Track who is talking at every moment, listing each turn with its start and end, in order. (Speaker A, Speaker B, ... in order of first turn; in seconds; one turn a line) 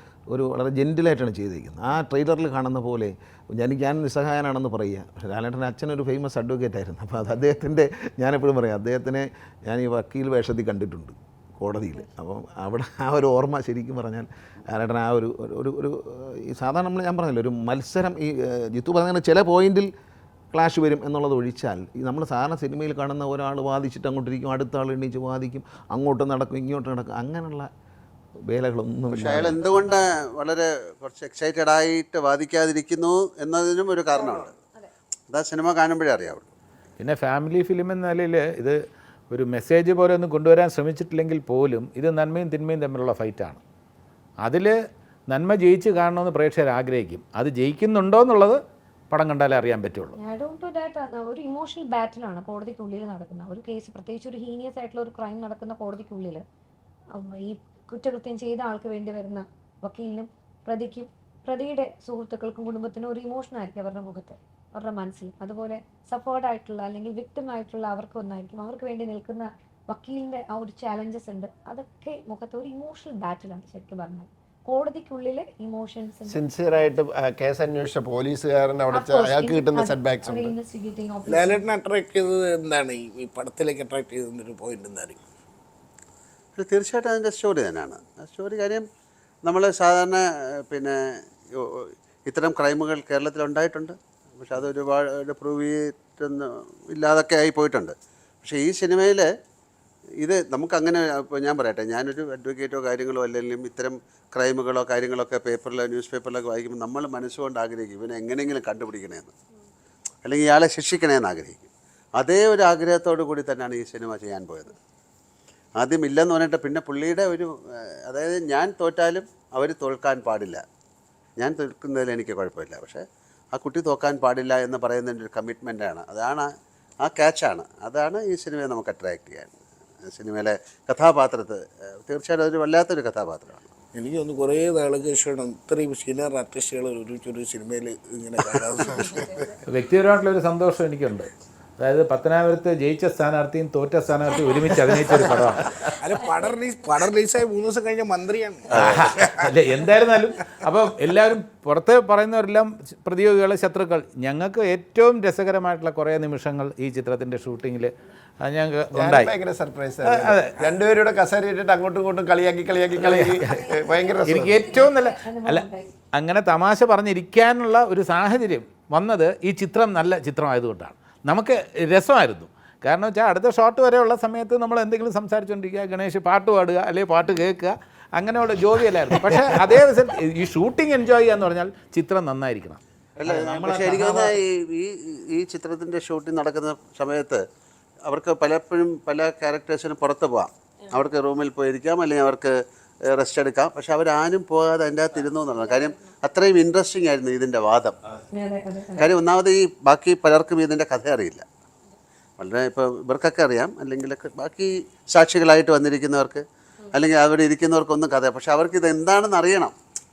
Speaker A: 0.3-19.9
Speaker A: 20.5-27.7
Speaker A: 28.5-30.0
Speaker B: 29.1-34.5
Speaker B: 35.3-36.5
Speaker C: 37.0-38.8
Speaker C: 39.3-43.6
Speaker C: 44.4-44.8
Speaker C: 45.3-50.2
Speaker D: 50.2-56.4
Speaker D: 57.1-76.4
Speaker E: 76.3-80.5
Speaker D: 78.9-81.6
Speaker F: 81.3-85.2
Speaker B: 86.6-88.9
Speaker B: 89.4-99.3
Speaker B: 100.2-109.3
Speaker B: 110.2-114.8
Speaker B: 115.8-120.6
Speaker B: 121.4-126.5
Speaker B: 127.0-133.7
Speaker F: 133.9-139.6
Speaker C: 139.7-145.8
Speaker F: 145.8-149.5
Speaker B: 148.7-149.1
Speaker C: 148.8-159.3
Speaker E: 158.9-164.8
Speaker C: 160.0-160.6
Speaker C: 163.0-163.6
Speaker D: 163.5-165.9
Speaker C: 164.2-182.8
Speaker B: 183.2-187.4
Speaker A: 183.2-184.4
Speaker B: 188.1-198.0
Speaker D: 198.3-199.1
Speaker B: 199.0-201.4
Speaker B: 202.4-209.8